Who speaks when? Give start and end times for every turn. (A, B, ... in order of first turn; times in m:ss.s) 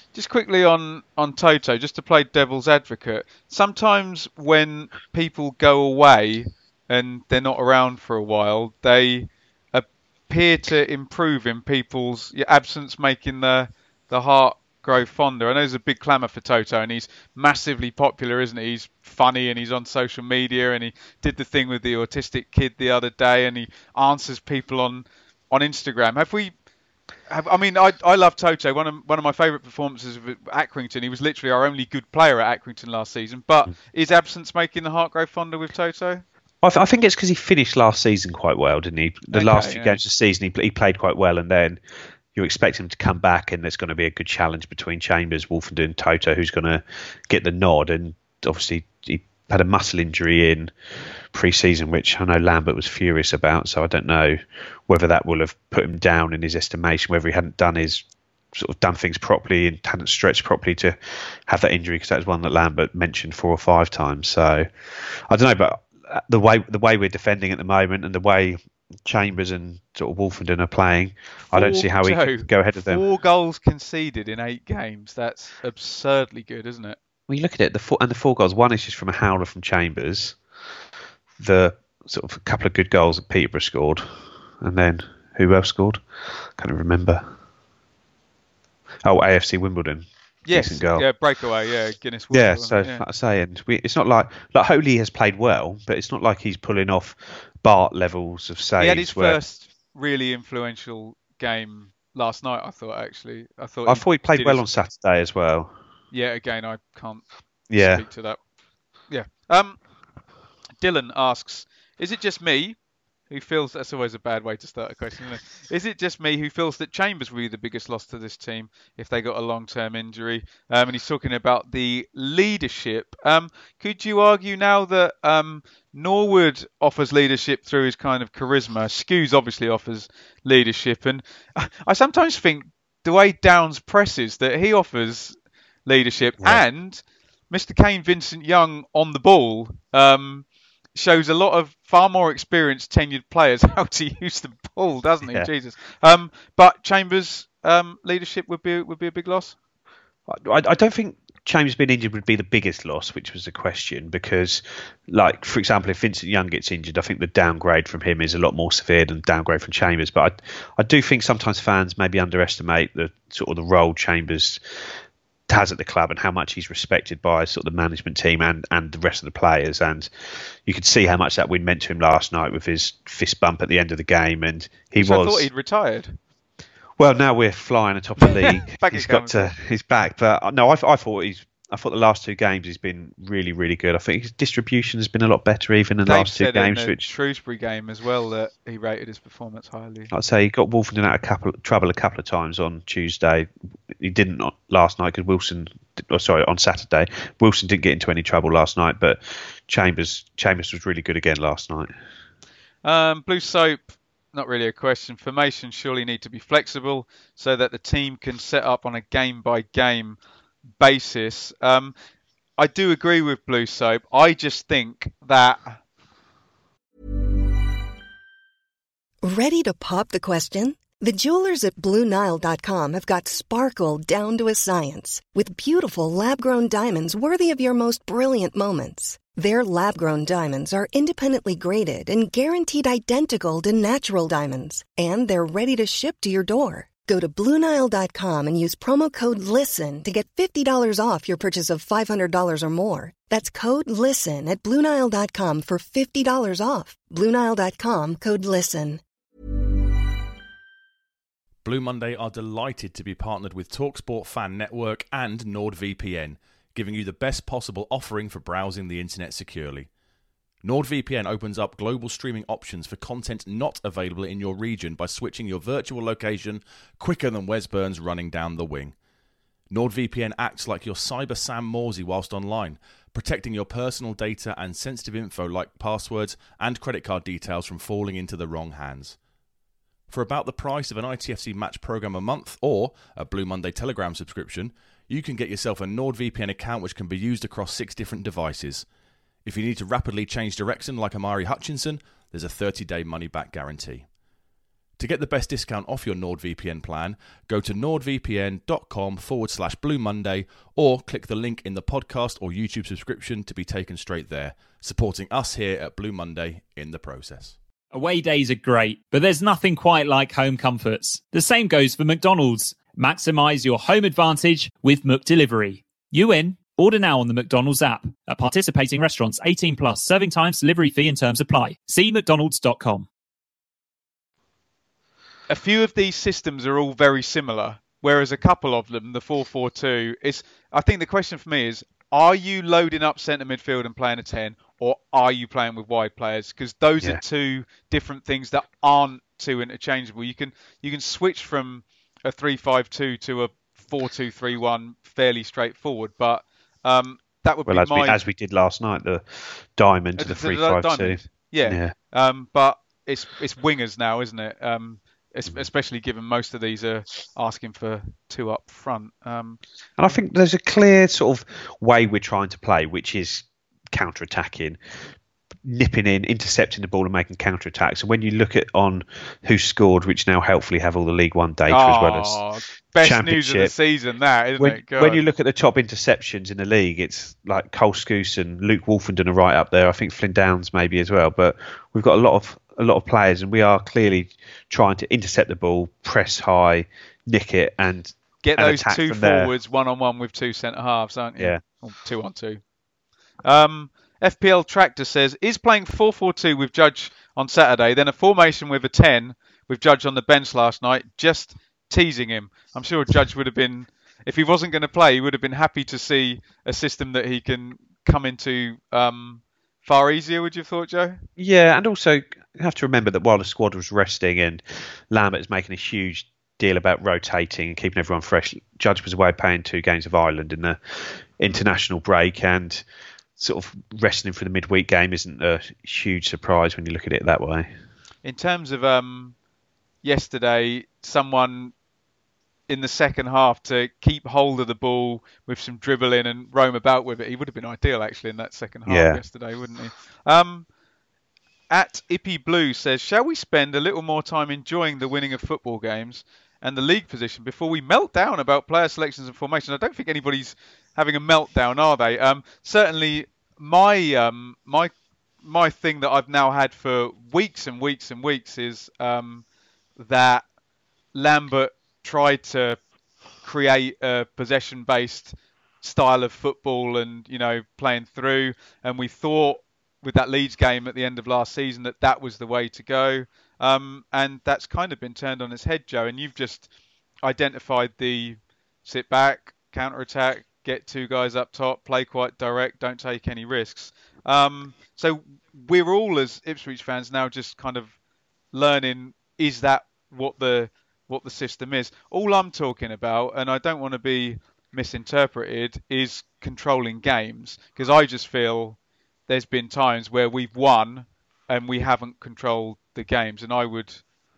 0:00.1-0:26.5 A
0:27.3-0:36.2 A
0:36.6-0:41.8 B
0:39.3-0:40.0 A
0:42.3-0:50.7 B
0:51.3-1:13.0 B
1:11.4-1:17.0 A
1:17.3-1:20.4 B
1:21.4-1:24.0 B
1:24.6-1:27.3 B
1:29.0-1:31.0 B
1:30.4-1:33.0 A
1:32.3-1:39.4 B
1:38.8-1:44.6 A
1:43.9-1:45.7 B
1:46.1-1:47.2 A
1:47.7-1:48.0 B
1:47.8-1:48.4 A
1:49.1-1:49.8 A
1:50.8-1:52.8 A
1:53.3-2:29.5 A
2:30.3-2:44.6 B
2:45.5-2:55.5 B
2:55.0-2:56.2 A
2:57.0-3:07.0 B
2:58.2-2:59.5 A
3:06.0-3:10.1 A
3:10.1-3:21.9 B
3:22.8-3:30.2 A
3:30.8-3:31.9 A
3:32.6-3:35.8 A
3:39.2-4:09.0 C
4:11.6-4:19.9 D
4:20.6-4:29.0 D
4:29.7-4:39.2 D
4:40.1-4:48.8 D
4:49.4-4:54.1 D
4:55.0-5:07.6 D
5:07.9-5:23.1 E
5:25.5-5:48.2 A
5:47.6-5:51.9 B
5:50.2-5:59.6 A
6:00.0-6:04.8 B
6:05.6-6:12.4 B
6:11.7-6:15.2 A
6:13.0-6:13.7 B
6:14.6-6:29.5 B
6:28.4-6:32.6 A
6:31.4-6:31.6 B
6:33.4-6:51.2 A
6:51.4-7:02.8 B
7:03.4-7:07.7 B
7:08.2-7:09.3 A
7:10.0-7:11.7 A
7:12.7-7:20.6 A
7:18.9-7:19.2 B
7:21.7-7:39.4 A
7:40.0-7:40.4 A
7:41.1-7:42.8 A
7:43.4-7:56.7 A
7:57.2-8:07.9 A
8:08.5-8:18.8 A
8:19.3-8:24.0 A